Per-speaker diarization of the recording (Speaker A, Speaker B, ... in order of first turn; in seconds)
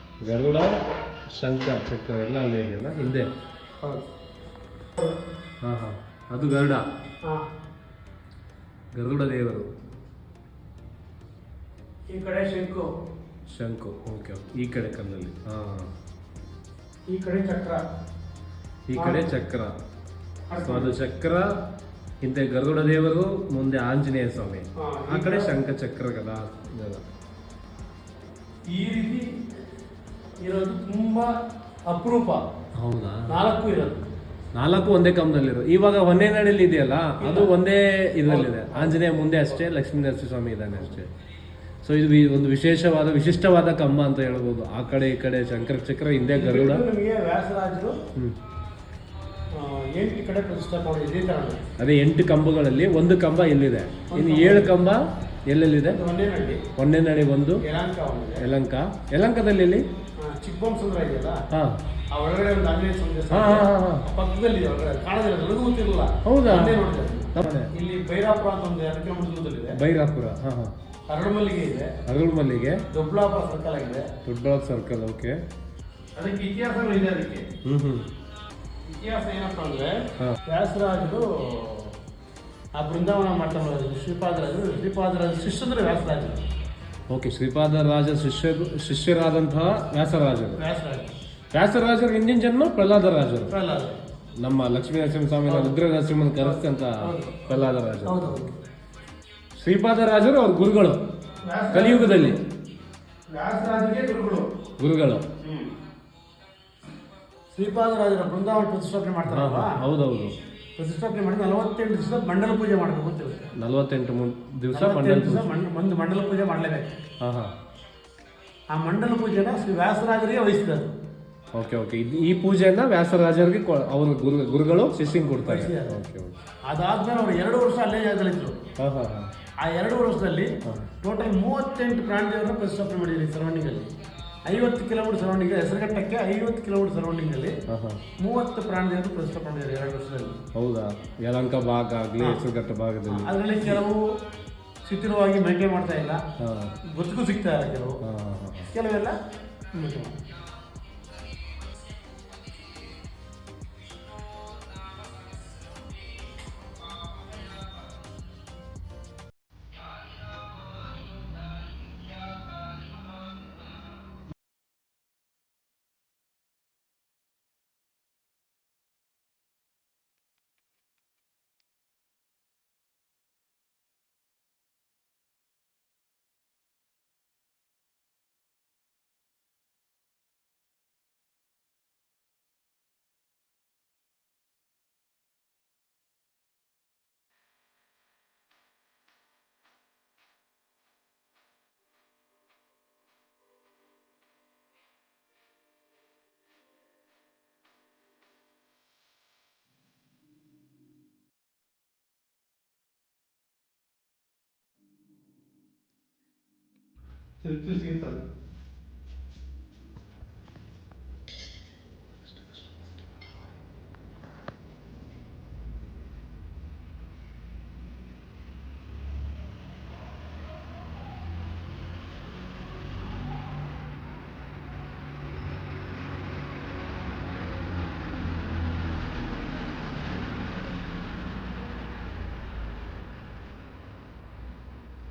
Speaker A: 0.2-3.3, 5.6-6.8, 8.9-9.7, 13.5-15.9, 18.9-19.7, 20.6-21.5, 22.2-27.0, 32.7-33.3, 34.5-41.1, 41.8-46.8, 51.8-56.0, 56.8-57.6, 58.4-59.9, 61.5-61.8, 63.3-64.0, 66.2-66.8, 67.3-67.7, 69.7-70.7, 72.0-72.8, 74.2-75.4, 77.6-78.1, 87.1-90.6, 91.5-93.5, 94.4-98.4, 99.6-101.0, 101.7-102.4, 104.8-105.2, 109.2-110.3, 113.6-115.4, 117.2-117.5, 121.5-126.4, 128.8-129.3, 130.6-130.9, 137.7-138.0, 140.5-143.8, 146.4-146.7, 148.0-148.7
Speaker B: 12.1-12.9, 17.1-17.8, 18.9-19.2, 20.5-20.9, 24.8-25.5, 28.7-29.2, 30.4-31.3, 31.9-32.4, 33.3-34.0, 37.2-37.5, 38.2-39.0, 46.3-48.0, 49.5-51.6, 54.1-54.7, 55.9-56.6, 57.6-58.5, 60.2-61.4, 62.1-69.8, 71.1-72.0, 72.9-74.1, 76.2-77.5, 78.8-82.0, 82.8-86.4, 90.5-91.1, 93.5-94.0, 95.5-95.8, 96.4-98.5, 101.4-102.4, 103.3-104.5, 105.4-105.7, 107.5-109.8, 110.8-113.5, 114.7-116.9, 118.7-120.9, 125.5-125.9, 126.7-128.6, 129.6-133.9, 134.5-137.6, 138.2-140.4, 143.1-144.0, 144.8-146.2, 146.9-147.9, 148.7-149.1, 149.7-150.2, 207.4-208.2